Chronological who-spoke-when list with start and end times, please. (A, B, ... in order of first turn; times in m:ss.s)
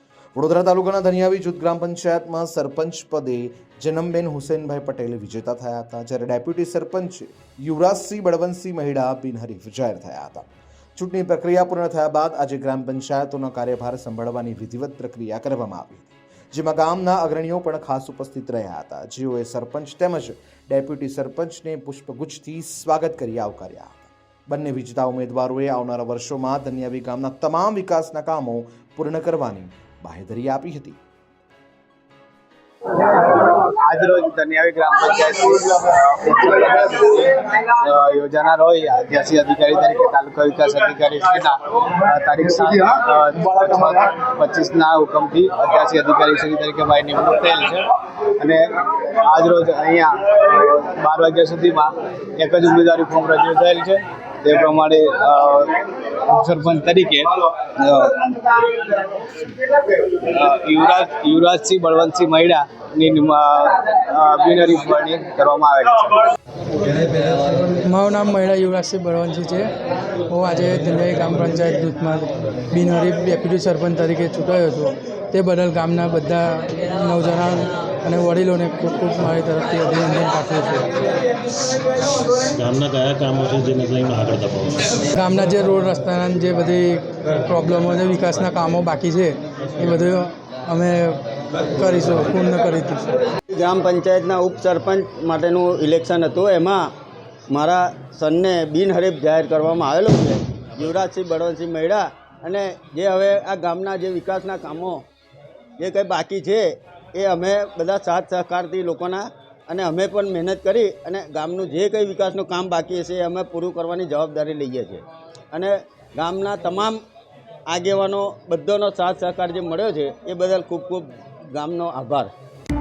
0:00.4-0:31.0 A
0:33.0-1:06.3 B
1:07.2-1:09.7 C
1:10.3-1:20.9 C
1:22.5-1:25.0 D
1:25.1-1:31.2 C
1:31.8-1:33.2 C
1:33.5-1:36.9 E
1:37.5-1:45.0 E
1:45.8-1:57.0 E
1:57.7-2:02.3 E